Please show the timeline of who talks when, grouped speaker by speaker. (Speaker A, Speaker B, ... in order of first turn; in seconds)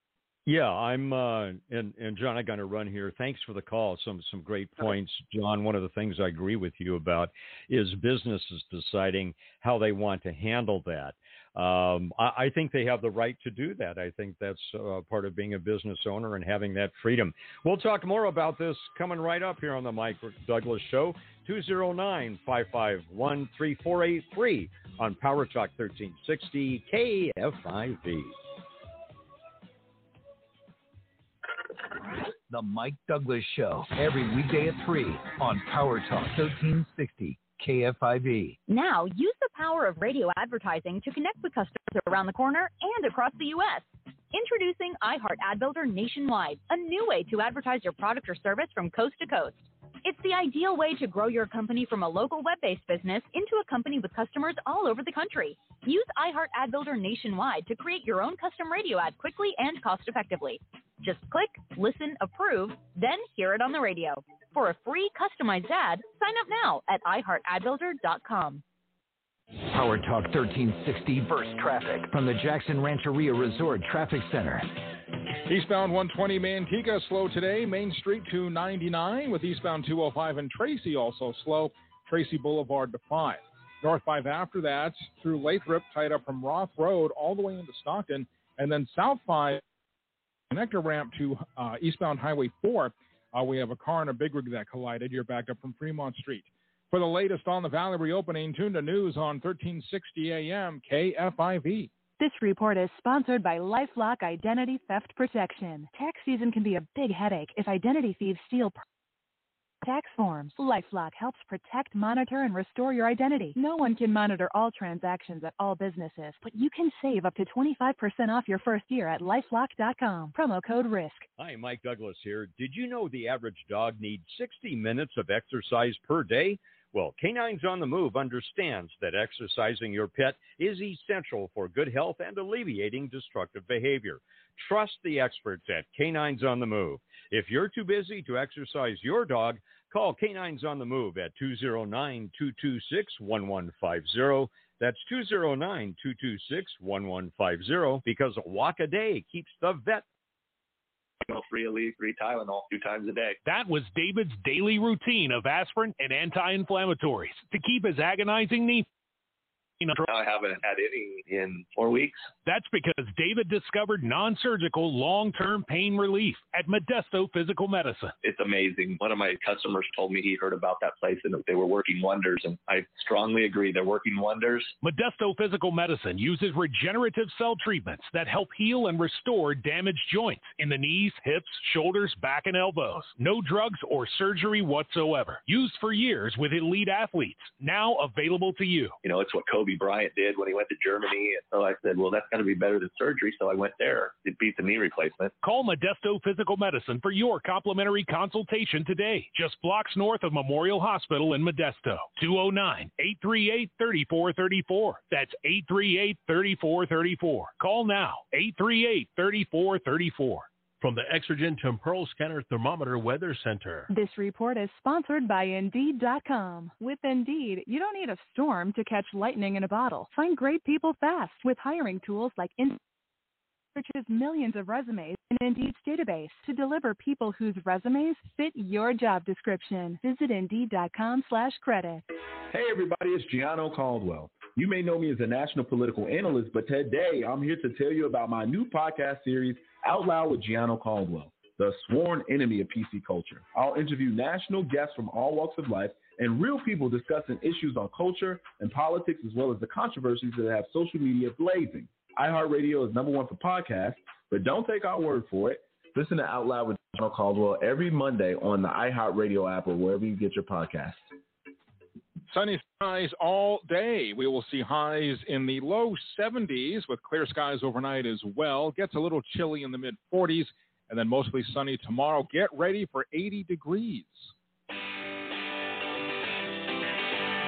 Speaker A: 0.5-28.3, 121.4-150.0
Speaker B: 32.5-38.6, 69.7-74.7
Speaker C: 38.7-68.6
Speaker D: 75.5-89.6, 90.5-101.9, 262.3-274.3
Speaker E: 102.2-108.8, 109.8-121.3, 213.9-222.8, 223.7-232.0
Speaker F: 151.2-153.4, 159.9-162.3, 168.2-174.7, 189.0-195.3
Speaker G: 153.4-158.9, 162.4-168.1, 174.8-188.9, 195.4-210.5
Speaker H: 210.8-213.9
Speaker I: 232.5-261.0